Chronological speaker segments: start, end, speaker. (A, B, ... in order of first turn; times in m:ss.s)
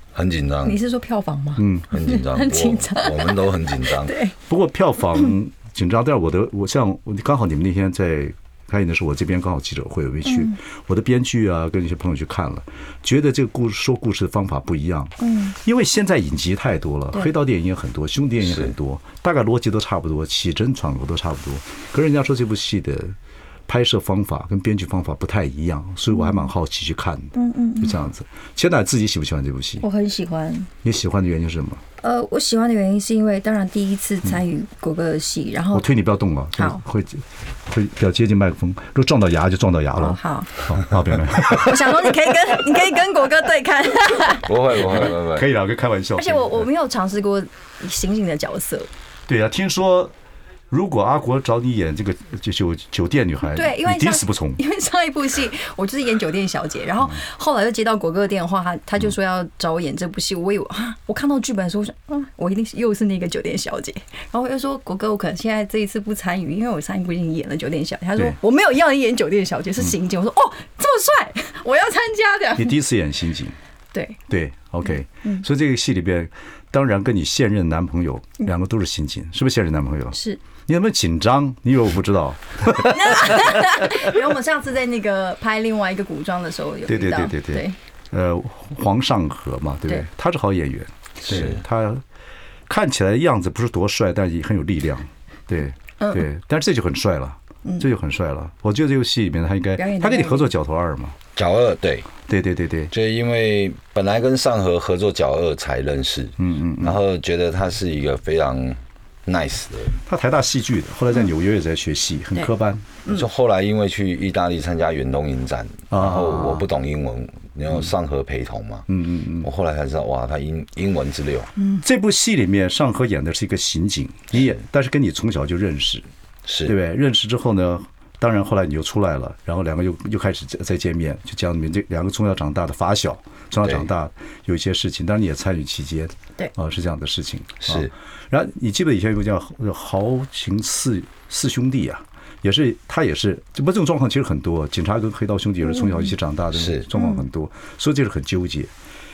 0:00.1-0:00.8 A
0:00.6-0:04.3 B
0:01.6-0:01.9 C
0:01.9-0:04.1 A
0:04.5-0:23.2 C
0:10.2-0:10.6 B
0:15.2-0:15.6 B
0:18.4-0:18.7 A
0:23.7-0:29.8 C
0:26.1-0:26.5 B
0:27.3-0:28.0 B
0:29.8-0:30.7 B
0:30.8-0:31.8 C
0:32.0-0:35.9 B
0:35.7-0:41.9 C
0:36.6-0:36.8 B
0:40.0-0:40.5 B
0:41.5-0:44.5 B
0:44.4-0:45.5 A
0:45.3-0:46.7 C
0:46.2-0:48.9 B
0:49.3-0:50.1 C
0:50.7-0:54.6 C
0:53.5-1:12.8 B
1:12.6-1:13.5 C
1:13.9-1:14.2 B
1:14.3-1:24.2 C
1:20.1-1:20.4 B
1:22.8-1:27.8 B
1:26.9-1:32.0 C
1:31.2-1:31.6 A
1:32.7-1:41.2 C
1:39.8-1:40.5 B
1:41.3-1:42.1 A
1:42.3-1:42.9 C
1:42.9-1:50.0 A
1:46.4-1:47.0 C
1:50.0-1:52.9 C
1:53.1-1:58.8 A
1:55.9-1:56.6 C
1:58.9-1:59.5 C
1:59.4-2:01.5 A
2:01.6-2:01.8 B
2:01.8-2:06.1 C
2:06.4-2:06.7 A
2:06.6-2:28.7 C
2:13.6-2:13.9 A
2:17.6-2:17.9 A
2:25.6-2:26.1 B
2:26.5-2:26.9 A
2:26.9-2:27.2 B